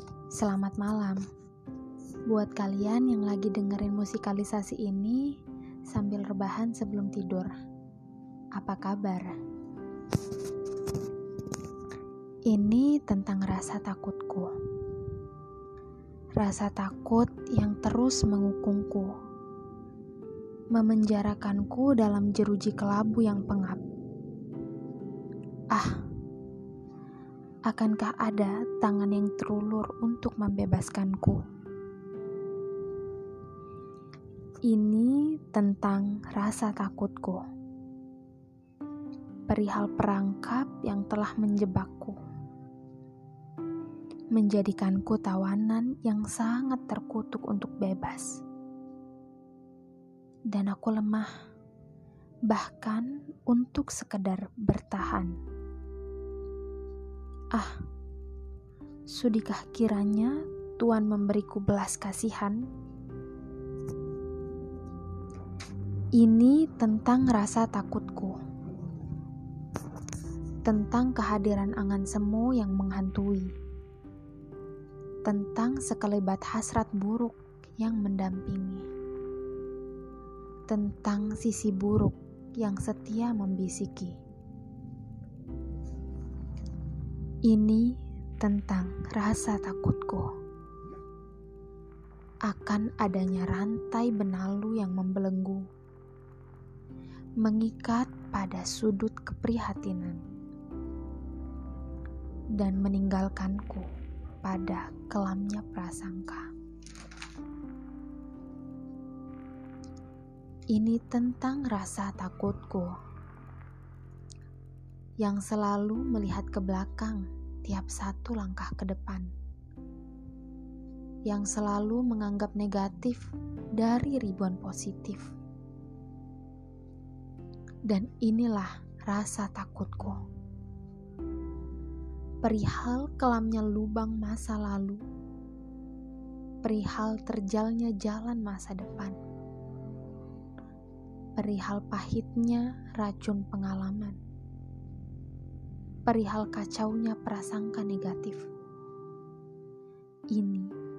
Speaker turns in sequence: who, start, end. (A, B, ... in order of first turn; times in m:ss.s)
0:00.3-0:01.2 A
0:02.2-0:05.4 A
0:05.9-0:07.5 A
0:08.5-0:09.4 A
0:12.5-0:14.5 A
0:16.4-0:19.1 A
0:20.7-0:23.8 A
0:25.7-0:26.0 A
0:27.7-0:31.4 A
0:34.7-0:37.4 A
0:39.5-0:42.2 A
0:44.3-0:48.4 A
0:50.5-0:51.3 A
0:52.5-0:55.3 A
0:59.1-1:02.6 A
1:06.2-1:08.4 A
1:10.6-1:13.6 A
1:15.2-1:18.9 A
1:20.7-1:24.2 A
1:27.5-1:30.3 A
1:32.5-1:35.6 A
1:37.4-1:40.2 A
1:42.6-1:43.9 A
1:44.4-1:46.5 A
1:50.7-1:53.0 A
1:55.2-1:59.3 A
2:01.3-2:03.2 A
2:03.8-2:05.3 A
2:07.9-2:10.2 A
2:12.4-2:15.0 A
2:16.6-2:19.2 A
2:21.4-2:24.2 A
2:26.0-2:28.5 A
2:30.3-2:30.7 A